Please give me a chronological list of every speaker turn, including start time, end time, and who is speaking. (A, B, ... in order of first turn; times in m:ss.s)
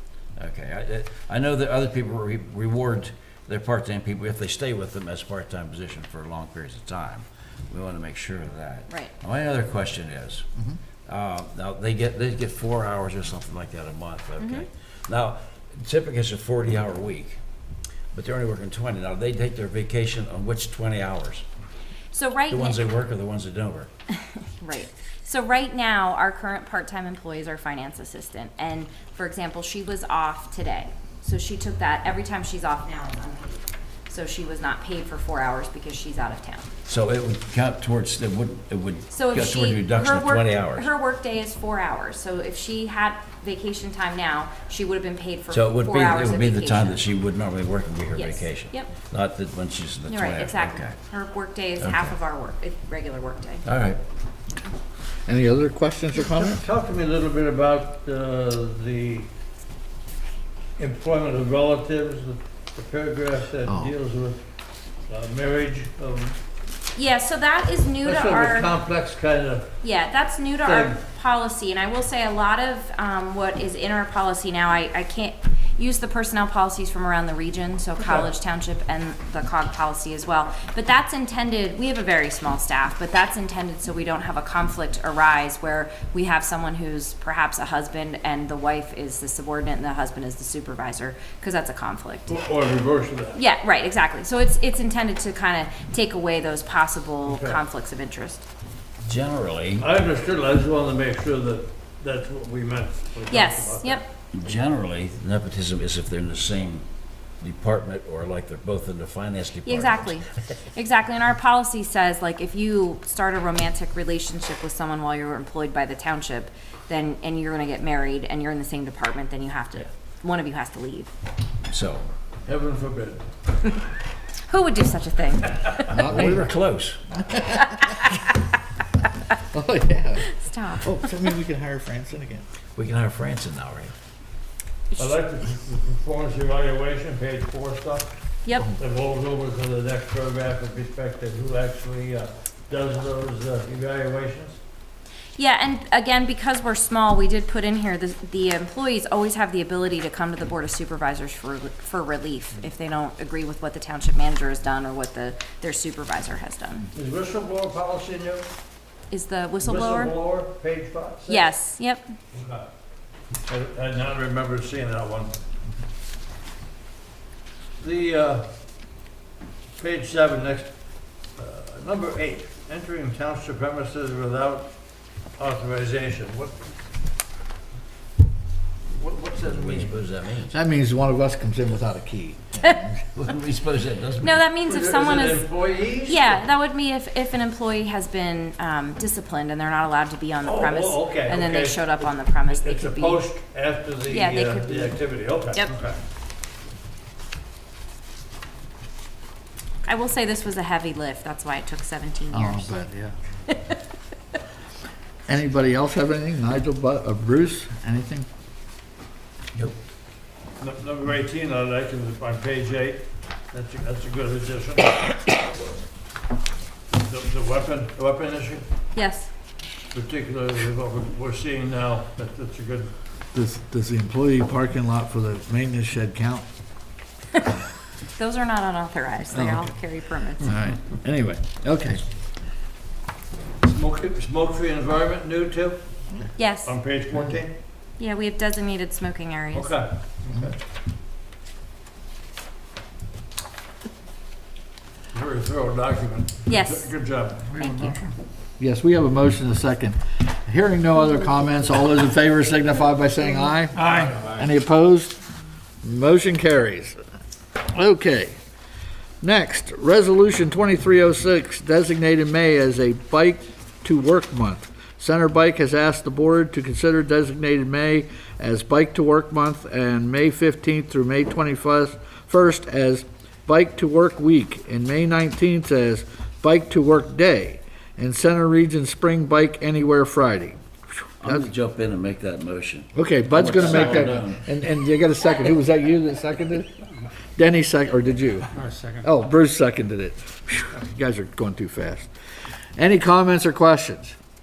0:00.4-0:10.5 A
0:08.9-0:09.1 B
0:11.0-0:17.4 A
0:14.4-0:14.7 B
0:18.1-0:21.4 A
0:22.1-0:22.8 B
0:22.5-0:23.9 A
0:24.4-0:36.7 B
0:36.9-0:40.9 A
0:39.1-0:47.0 B
0:45.5-0:51.0 A
0:48.1-0:48.9 B
0:50.1-0:53.7 B
0:51.8-0:52.1 A
0:53.6-0:54.0 A
0:55.2-0:56.6 C
0:56.2-0:59.3 D
1:00.8-1:04.4 D
1:03.7-1:03.9 C
1:05.1-1:06.4 D
1:07.0-1:08.7 B
1:08.0-1:09.7 D
1:09.8-1:32.3 B
1:10.6-1:11.0 D
1:18.0-1:18.3 D
1:32.3-1:33.4 D
1:33.3-1:38.4 B
1:37.3-1:37.6 D
1:39.0-1:39.9 A
1:39.8-1:44.0 D
1:43.3-1:44.1 B
1:44.3-1:46.8 A
1:47.4-1:50.2 A
1:49.6-2:01.1 B
2:01.7-2:02.1 A
2:02.4-2:03.3 D
2:04.4-2:05.8 B
2:05.9-2:06.5 C
2:05.9-2:07.0 A
2:07.1-2:07.8 C
2:09.5-2:12.5 C
2:10.3-2:11.0 B
2:12.8-2:13.9 A
2:15.0-2:18.1 D
2:18.4-2:18.7 B
2:18.7-2:24.6 D
2:25.4-2:36.9 B
2:36.9-2:38.5 D
2:39.1-2:40.1 B
2:39.6-2:41.5 D
2:41.3-2:42.1 B
2:42.3-2:42.7 D
2:43.5-2:45.4 D
2:47.8-2:48.5 D
2:49.8-2:54.7 D
2:55.4-2:56.7 D
2:58.8-3:00.0 D
2:59.4-3:00.6 A
3:00.5-3:03.0 C
3:03.2-3:04.5 A
3:04.2-3:05.5 B
3:04.6-3:06.4 D
3:06.0-3:13.2 B
3:10.4-3:16.0 D
3:14.1-3:15.0 B
3:19.8-3:22.8 B
3:22.3-3:23.1 C
3:23.5-3:23.8 B
3:25.3-3:28.3 C
3:30.6-3:35.4 D
3:36.9-3:38.7 D
3:38.9-3:39.3 B
3:39.9-3:42.9 D
3:43.3-3:46.5 C
3:48.2-3:50.5 B
3:49.3-3:49.7 C
3:50.4-3:52.0 C
3:53.6-3:55.8 D
3:56.4-3:56.7 B
3:56.6-3:57.5 D
3:58.0-3:59.8 B
3:59.5-4:00.6 D
4:05.1-4:08.0 D
4:06.5-4:06.9 B
4:07.6-4:08.0 B
4:08.6-4:15.2 C
4:13.7-4:14.4 D
4:15.8-4:17.0 C
4:17.6-4:18.3 C
4:19.2-4:41.5 C
4:41.2-4:44.6 A
4:42.9-4:46.8 C
4:47.4-4:52.1 C
4:52.8-4:54.2 C